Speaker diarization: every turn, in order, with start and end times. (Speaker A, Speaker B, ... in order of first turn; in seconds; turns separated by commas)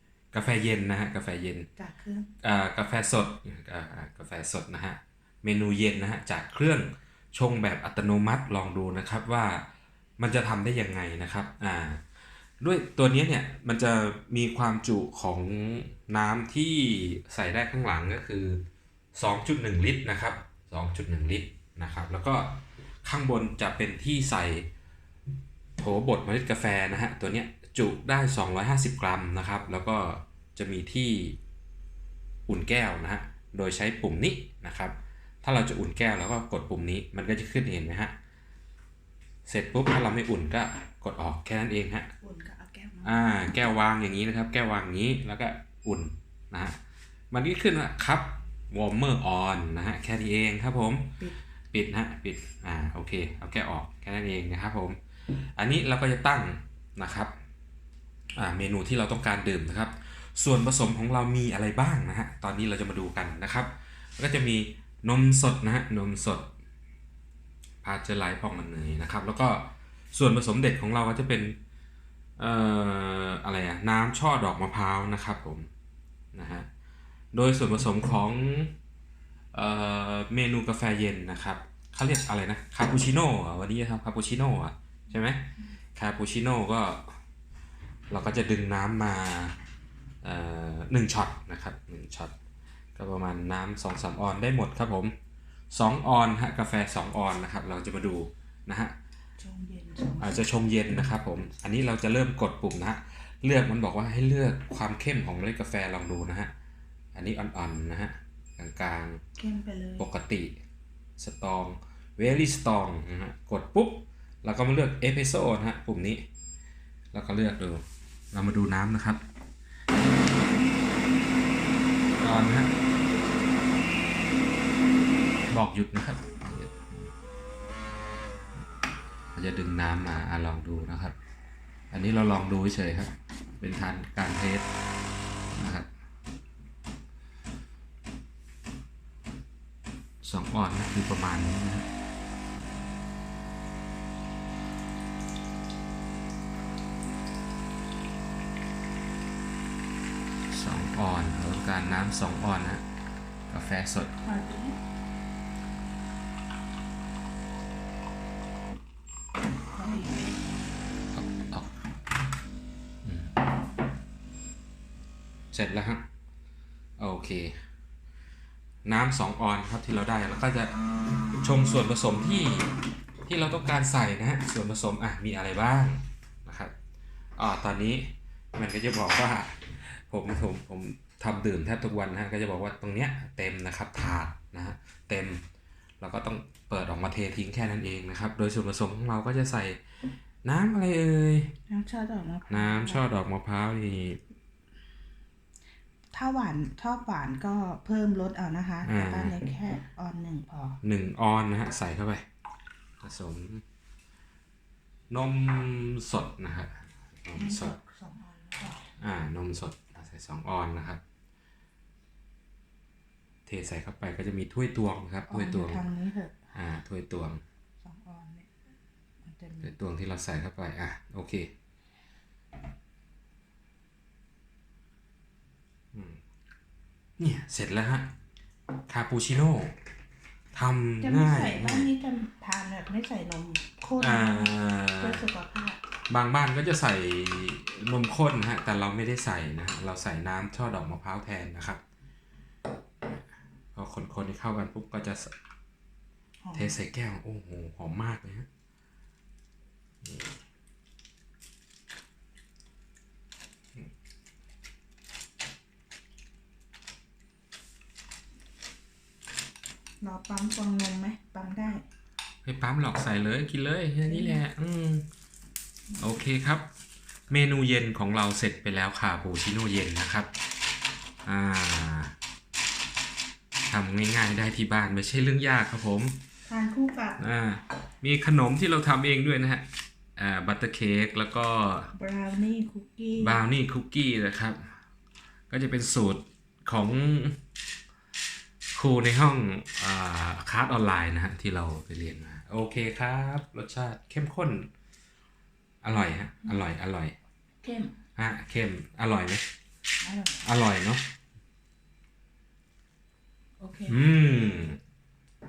Speaker A: 0.3-1.7, Speaker B: 1.8-2.3, Speaker A: 2.4-9.7, Speaker A: 10.2-12.0, Speaker A: 12.6-24.7, Speaker A: 25.8-31.4, Speaker A: 32.5-38.1, Speaker A: 39.5-42.1, Speaker B: 42.2-43.3, Speaker A: 43.0-46.8, Speaker A: 47.3-51.2, Speaker A: 51.7-57.3, Speaker A: 58.4-66.5, Speaker A: 67.8-71.6, Speaker A: 72.4-75.7, Speaker A: 76.3-76.7, Speaker A: 77.3-78.7, Speaker A: 79.5-87.2, Speaker A: 88.1-89.6, Speaker A: 90.2-92.3, Speaker A: 93.0-95.2, Speaker A: 95.7-99.0, Speaker B: 99.4-100.5, Speaker A: 100.2-106.5, Speaker A: 107.2-109.2, Speaker B: 109.4-110.1, Speaker A: 110.0-110.5, Speaker A: 111.2-116.3, Speaker A: 117.1-119.2, Speaker A: 122.2-122.7, Speaker A: 125.5-127.1, Speaker A: 129.3-131.2, Speaker A: 131.9-134.7, Speaker A: 135.5-135.9, Speaker A: 140.2-141.9, Speaker A: 150.5-152.8, Speaker A: 153.5-154.1, Speaker B: 154.2-154.8, Speaker B: 159.8-160.4, Speaker A: 161.2-161.7, Speaker A: 163.1-163.4, Speaker A: 165.5-166.1, Speaker A: 167.0-167.7, Speaker A: 168.8-170.8, Speaker A: 171.3-176.7, Speaker A: 177.4-185.4, Speaker A: 186.0-189.8, Speaker A: 190.4-191.5, Speaker B: 191.7-193.0, Speaker A: 192.5-194.2, Speaker B: 196.1-200.8, Speaker A: 198.8-199.4, Speaker A: 200.8-202.3, Speaker A: 203.0-203.6, Speaker A: 205.1-207.8, Speaker B: 207.3-208.9, Speaker A: 209.0-211.0, Speaker A: 213.5-215.8, Speaker B: 215.3-216.3, Speaker A: 216.6-217.4, Speaker B: 217.8-218.5, Speaker B: 219.2-219.7, Speaker A: 219.6-221.5, Speaker A: 225.9-226.2, Speaker A: 227.2-228.1, Speaker A: 228.9-229.8, Speaker A: 230.5-231.9, Speaker B: 231.0-235.8, Speaker A: 234.0-235.2, Speaker A: 236.1-241.8, Speaker A: 243.8-245.3, Speaker B: 246.4-246.8, Speaker A: 246.5-248.5, Speaker A: 250.0-250.4, Speaker B: 260.0-261.9, Speaker A: 262.4-265.1, Speaker B: 264.1-264.4, Speaker A: 266.0-266.7, Speaker A: 267.3-270.3, Speaker A: 271.2-272.1, Speaker A: 273.7-276.2, Speaker B: 276.5-277.2, Speaker A: 277.2-281.9, Speaker B: 281.9-283.4, Speaker A: 283.2-284.8, Speaker A: 285.5-287.4, Speaker A: 288.8-294.7, Speaker A: 295.8-297.2, Speaker B: 297.6-297.9, Speaker A: 298.2-299.4, Speaker B: 300.0-300.4, Speaker A: 300.4-301.1, Speaker B: 303.6-304.7, Speaker A: 303.9-304.8